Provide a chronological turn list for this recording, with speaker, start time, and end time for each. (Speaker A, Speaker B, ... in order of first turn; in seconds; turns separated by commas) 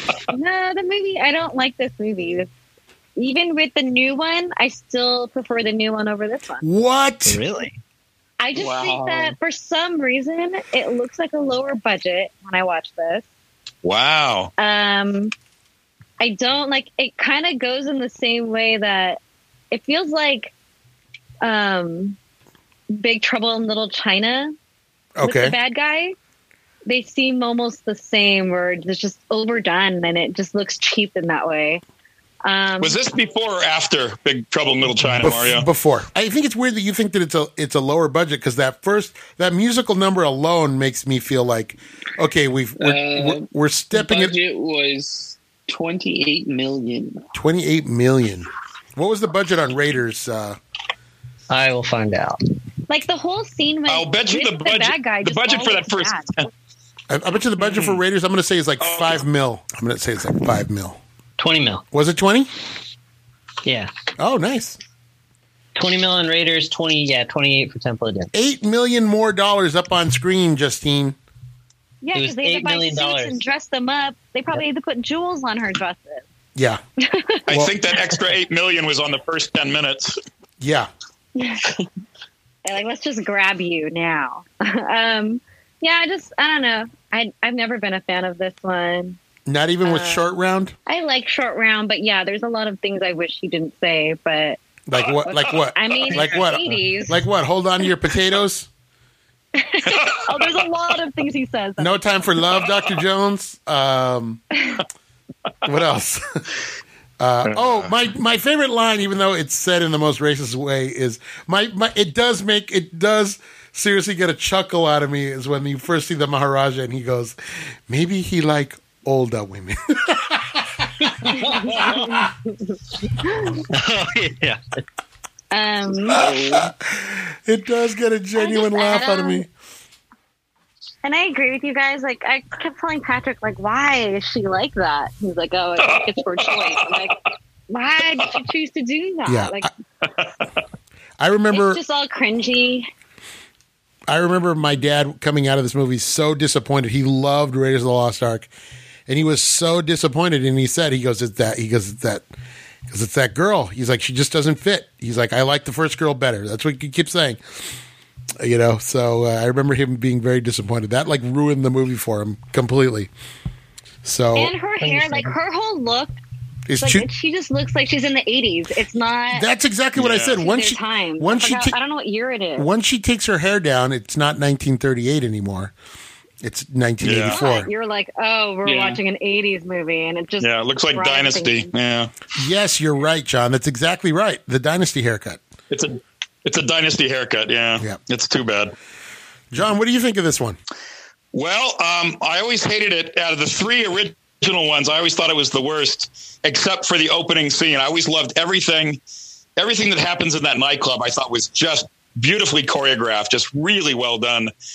Speaker A: 0.3-2.5, Speaker A: 3.1-6.7, Speaker B: 6.6-7.4, Speaker C: 7.2-7.8, Speaker A: 8.4-13.2, Speaker D: 8.6-9.4, Speaker E: 13.8-14.5, Speaker A: 14.6-15.3, Speaker A: 16.2-19.2, Speaker A: 19.7-20.5, Speaker A: 21.4-22.2, Speaker A: 22.9-24.5, Speaker B: 25.1-25.6, Speaker A: 25.2-26.1, Speaker A: 26.8-31.8, Speaker A: 32.4-33.0, Speaker E: 32.8-35.7, Speaker B: 35.2-44.3, Speaker D: 42.8-47.2, Speaker B: 47.3-50.6, Speaker C: 51.5-52.4, Speaker A: 52.9-56.3, Speaker E: 53.9-56.5, Speaker B: 57.1-61.0, Speaker E: 57.7-58.0, Speaker E: 58.8-59.2, Speaker C: 61.4-61.8, Speaker B: 61.9-62.5, Speaker C: 63.6-63.9, Speaker B: 64.2-64.8, Speaker C: 65.7-68.3, Speaker B: 68.3-71.2, Speaker A: 72.0-76.2, Speaker C: 72.1-73.4, Speaker B: 76.5-76.8, Speaker A: 77.0-77.4, Speaker E: 77.5-80.2, Speaker B: 77.5-77.7, Speaker B: 80.6-80.9, Speaker A: 81.4-81.7, Speaker A: 82.6-89.2, Speaker B: 89.5-90.7, Speaker A: 89.8-90.2, Speaker A: 90.9-94.6, Speaker B: 94.9-98.7, Speaker A: 95.3-97.2, Speaker A: 99.5-102.4, Speaker E: 99.9-100.2, Speaker B: 101.8-104.4, Speaker B: 105.6-106.4, Speaker B: 107.2-121.0, Speaker E: 107.5-107.9, Speaker D: 121.2-122.3, Speaker A: 121.3-123.6, Speaker C: 123.7-124.8, Speaker A: 125.5-126.2, Speaker B: 126.1-129.5, Speaker D: 126.1-126.7, Speaker A: 128.4-129.4, Speaker A: 131.0-137.2, Speaker E: 135.9-136.8, Speaker A: 137.7-139.7, Speaker B: 139.2-139.7, Speaker B: 141.2-141.8, Speaker A: 141.5-142.9, Speaker B: 144.1-148.5, Speaker B: 149.1-152.2, Speaker B: 152.9-157.4, Speaker B: 158.4-163.1, Speaker B: 164.0-164.5, Speaker A: 164.3-166.2, Speaker C: 164.8-165.3, Speaker B: 166.7-167.1, Speaker A: 166.8-169.4, Speaker B: 169.3-171.8, Speaker E: 169.9-170.4, Speaker A: 170.4-172.7, Speaker B: 172.6-175.7, Speaker B: 176.4-177.7, Speaker E: 177.0-177.4, Speaker A: 177.3-181.7, Speaker D: 178.6-179.0, Speaker E: 180.4-182.1, Speaker B: 182.4-185.4, Speaker E: 185.7-188.7, Speaker B: 189.5-190.6, Speaker E: 191.3-199.0, Speaker E: 199.6-204.5